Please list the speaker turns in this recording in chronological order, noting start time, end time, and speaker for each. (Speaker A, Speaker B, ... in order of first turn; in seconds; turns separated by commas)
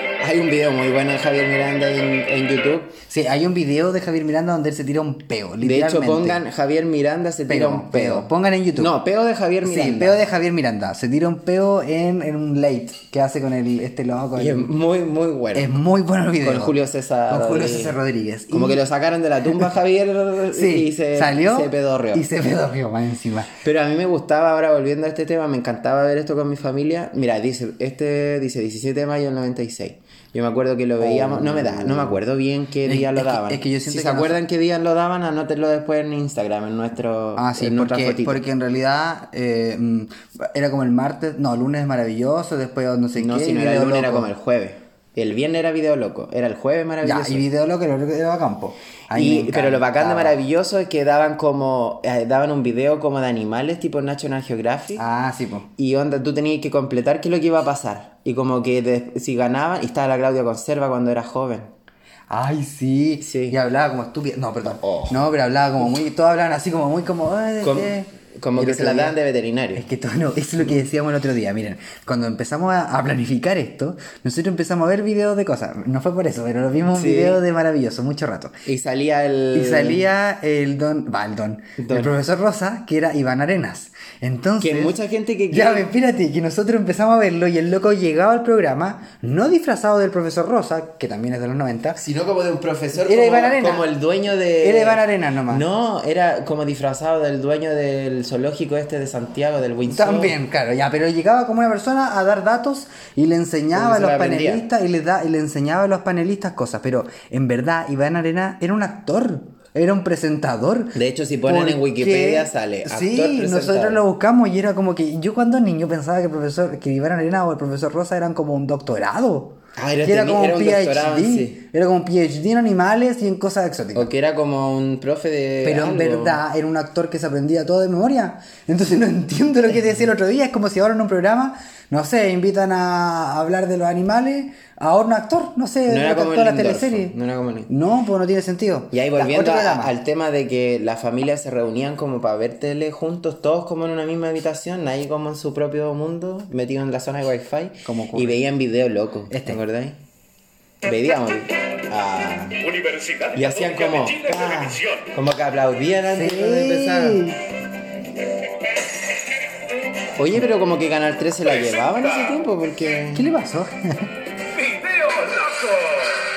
Speaker A: 0.2-3.0, Speaker B: 3.1-6.4, Speaker A: 5.6-10.2, Speaker B: 7.5-8.9, Speaker B: 9.6-14.7, Speaker A: 14.3-15.8, Speaker B: 15.5-16.8, Speaker A: 16.4-18.0, Speaker B: 17.3-18.8, Speaker A: 18.5-22.2, Speaker B: 20.5-23.5, Speaker A: 23.6-38.4, Speaker B: 31.0-32.2, Speaker B: 32.8-34.4, Speaker B: 37.4-44.3, Speaker A: 43.1-47.5, Speaker B: 47.0-50.4, Speaker A: 49.1-55.0, Speaker B: 55.0-55.7, Speaker A: 55.8-61.7, Speaker B: 62.3-69.2, Speaker A: 63.2-63.6, Speaker A: 64.6-65.2, Speaker A: 67.6-69.9, Speaker B: 69.8-78.6, Speaker A: 76.9-77.4, Speaker A: 78.7-80.1, Speaker B: 79.5-85.0, Speaker A: 81.8-82.1, Speaker A: 84.6-85.9, Speaker B: 85.5-92.0, Speaker A: 92.0-100.3, Speaker B: 93.0-93.9, Speaker B: 94.6-95.6, Speaker B: 99.8-124.1, Speaker A: 103.7-104.6, Speaker A: 110.9-114.0, Speaker A: 119.8-121.6, Speaker A: 123.9-126.4, Speaker B: 125.6-137.2, Speaker A: 135.9-137.7, Speaker B: 137.7-139.9, Speaker A: 138.9-150.0, Speaker B: 147.8-148.4, Speaker B: 149.3-149.6, Speaker A: 150.8-152.6, Speaker C: 152.6-155.1, Speaker A: 153.3-157.2, Speaker B: 156.1-157.4, Speaker A: 160.2-163.3, Speaker B: 163.1-164.1, Speaker C: 164.7-165.4